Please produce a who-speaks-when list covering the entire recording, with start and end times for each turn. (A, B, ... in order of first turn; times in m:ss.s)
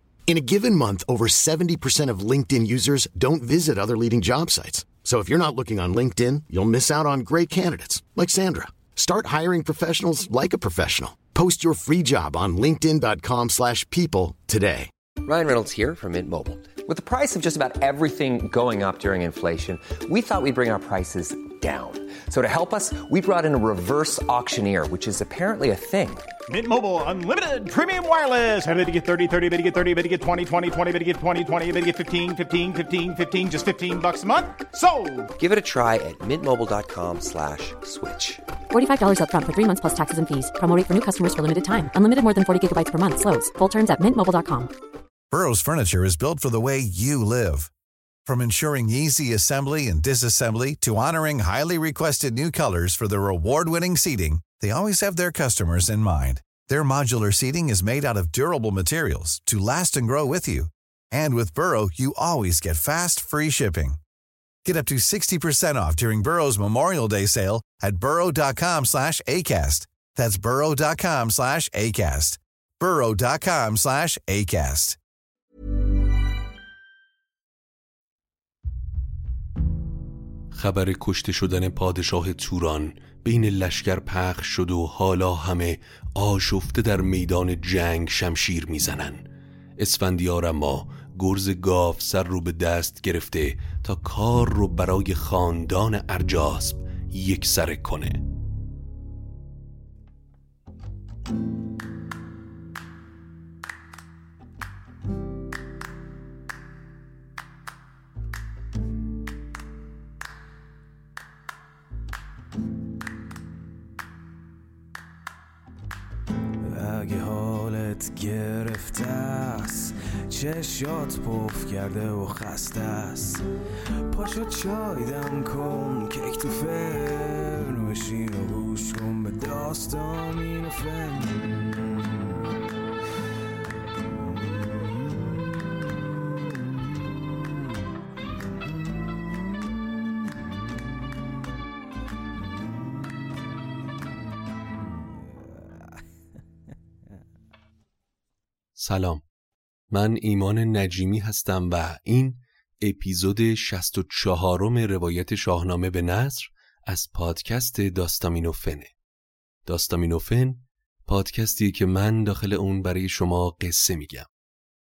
0:00.3-0:14.9 A
0:15.2-0:26.3 B
0:26.5-0:35.3 C
0:35.4-0:38.4 B
0:38.7-0:44.7 D
0:45.3-0:47.7 E
0:48.2-1:04.0 E
1:04.6-1:15.0 E
1:20.5-1:29.2 F
1:29.8-1:38.2 F
1:56.6-2:03.4 G
2:04.0-2:12.2 G
2:14.4-2:15.2 G
2:28.8-2:29.2 F
2:29.9-2:38.9 F
2:39.7-2:44.3 F